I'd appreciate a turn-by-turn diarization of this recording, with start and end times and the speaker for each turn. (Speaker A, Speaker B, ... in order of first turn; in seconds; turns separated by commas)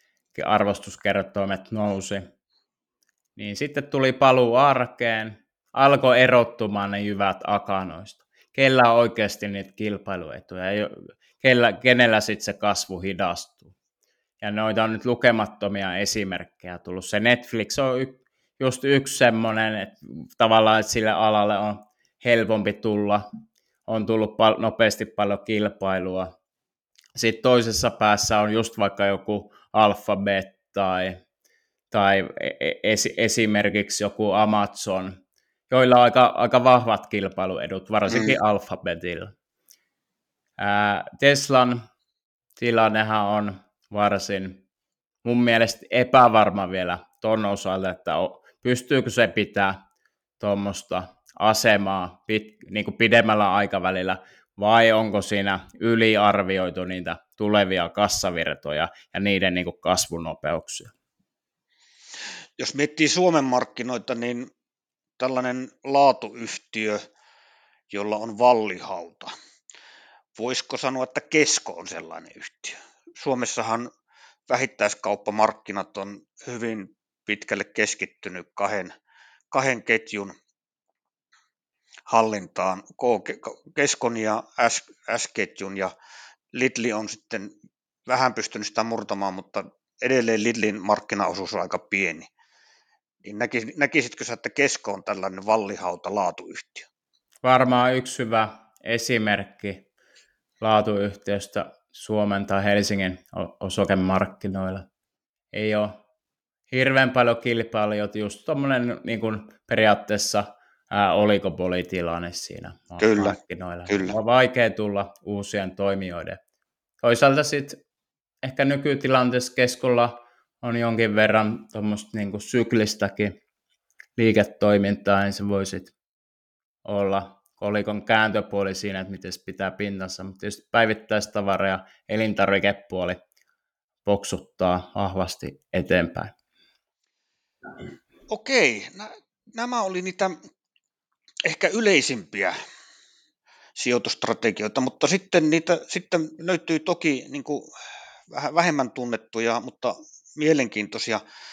Speaker A: 0.3-2.2, Speaker A: 3.4-13.7, Speaker A: 14.4-23.2, Speaker A: 23.9-26.3, Speaker A: 27.2-31.2, Speaker A: 31.9-35.2, Speaker A: 35.7-39.3, Speaker B: 38.1-38.4, Speaker A: 40.6-41.8, Speaker A: 42.6-44.6, Speaker A: 45.2-49.8, Speaker A: 50.4-60.9, Speaker B: 62.6-64.5, Speaker B: 65.2-67.0, Speaker B: 67.9-69.3, Speaker B: 70.4-73.9, Speaker B: 74.5-78.9, Speaker B: 79.5-80.3, Speaker B: 82.1-85.9, Speaker B: 86.5-87.5, Speaker B: 88.1-92.3, Speaker B: 93.2-96.9, Speaker A: 97.4-99.9, Speaker A: 100.6-104.9, Speaker A: 105.5-106.0, Speaker A: 106.7-116.4, Speaker B: 113.0-113.4, Speaker B: 113.9-114.2, Speaker A: 117.0-117.8, Speaker A: 118.4-123.4, Speaker A: 124.2-125.9, Speaker A: 126.8-133.2, Speaker A: 134.1-136.3, Speaker B: 138.3-140.3, Speaker B: 141.5-142.6, Speaker B: 143.8-147.7, Speaker B: 148.3-151.2